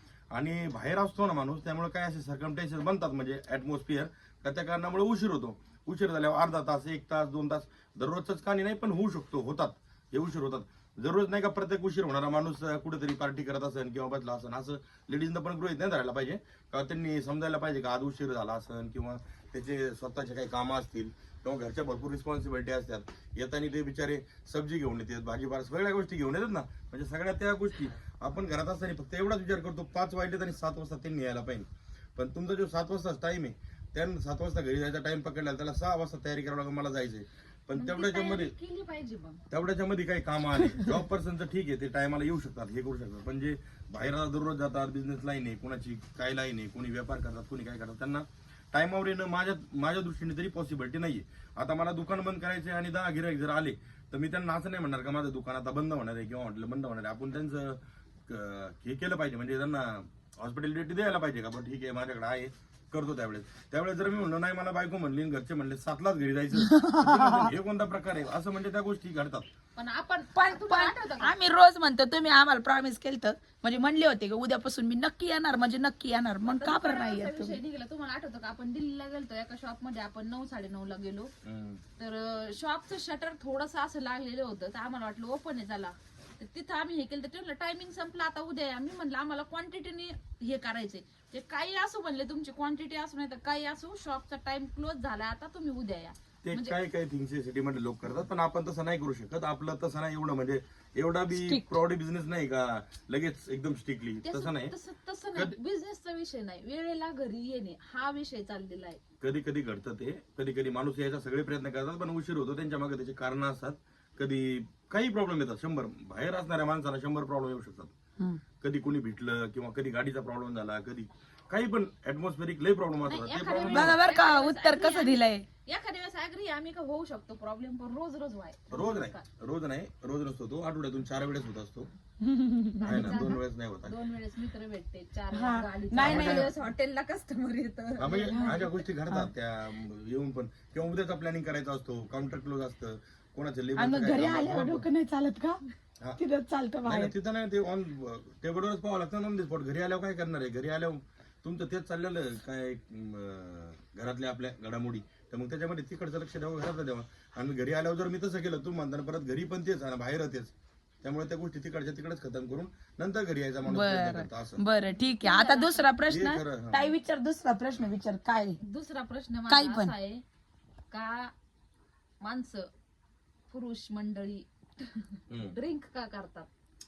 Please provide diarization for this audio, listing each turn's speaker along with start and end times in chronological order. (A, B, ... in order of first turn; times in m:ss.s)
0:00.3-0:38.5 A
0:37.8-0:39.4 B
0:39.5-1:09.5 A
0:40.6-0:40.9 C
1:06.6-1:07.5 C
1:09.8-1:11.3 B
1:10.3-1:17.6 C
1:16.4-1:21.3 B
1:21.4-1:21.8 A
1:22.0-1:36.8 B
1:36.4-1:44.7 A
1:41.3-1:41.6 C
1:44.2-1:49.0 B
1:49.2-1:57.9 A
1:58.6-2:04.0 A
2:03.1-2:09.2 B
2:03.6-2:05.4 C
2:08.7-2:11.9 A
2:12.2-2:13.4 C
2:12.8-2:18.7 B
2:12.8-2:14.0 A
2:15.3-2:16.5 C
2:16.0-2:16.5 A
2:18.0-2:24.8 A
2:18.1-2:19.3 C
2:23.8-2:25.6 C
2:26.2-2:27.1 C
2:26.8-2:44.6 A
2:43.7-2:48.6 C
2:45.2-2:45.9 B
2:46.1-2:46.9 A
2:48.6-2:50.2 B
2:49.5-2:49.9 C
2:50.9-2:51.3 B
2:52.2-2:52.7 B
2:53.5-2:56.5 B
2:55.3-2:55.6 A